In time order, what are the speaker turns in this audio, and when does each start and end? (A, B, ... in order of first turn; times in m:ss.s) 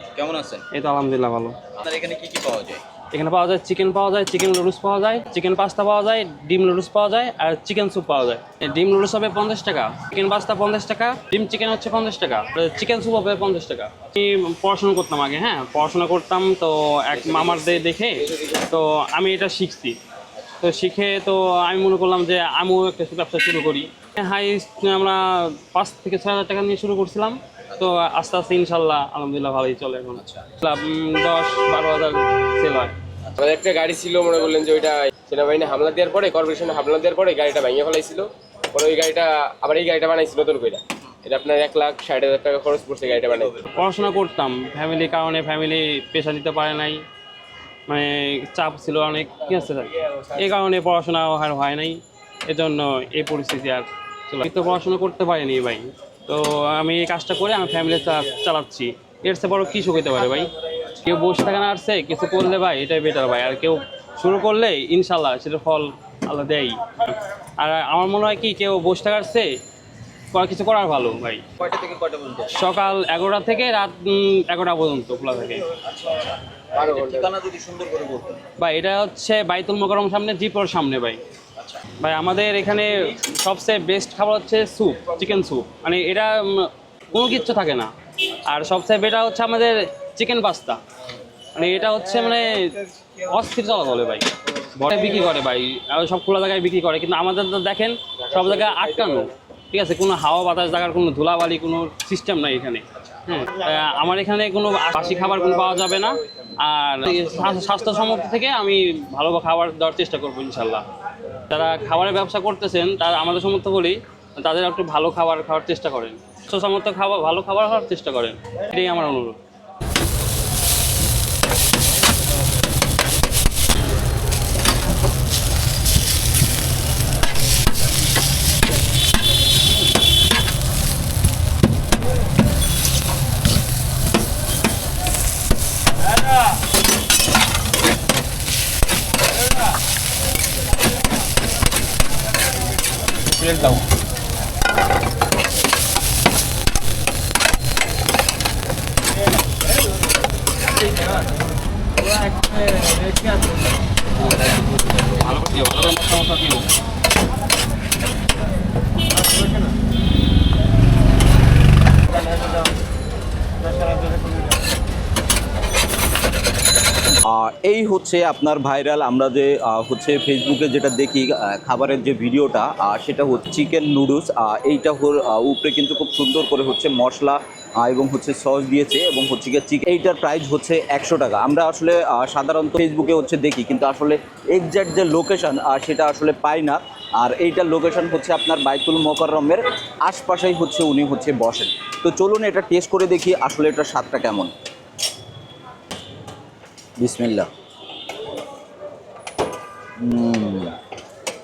0:00.1-0:00.6 A
0:00.7-0:01.6 B
0:01.7-0:02.8 A
0:03.1-0:20.0 B
0:20.6-0:32.9 B
0:30.2-0:30.5 A
0:33.4-0:43.6 C
0:43.7-0:47.0 B
0:47.9-1:09.6 B
1:10.3-1:11.4 B
1:11.6-1:12.6 A
1:12.5-1:15.7 B
1:15.8-1:18.4 A
1:16.7-1:17.3 C
1:18.6-1:21.2 B
1:21.6-1:21.8 A
1:22.0-1:30.8 B
1:31.5-1:50.8 B
1:38.3-1:38.8 C
1:51.5-1:59.4 B
2:34.9-2:36.7 B
2:47.2-3:14.5 A
3:17.0-3:17.5 A
3:20.0-3:20.8 A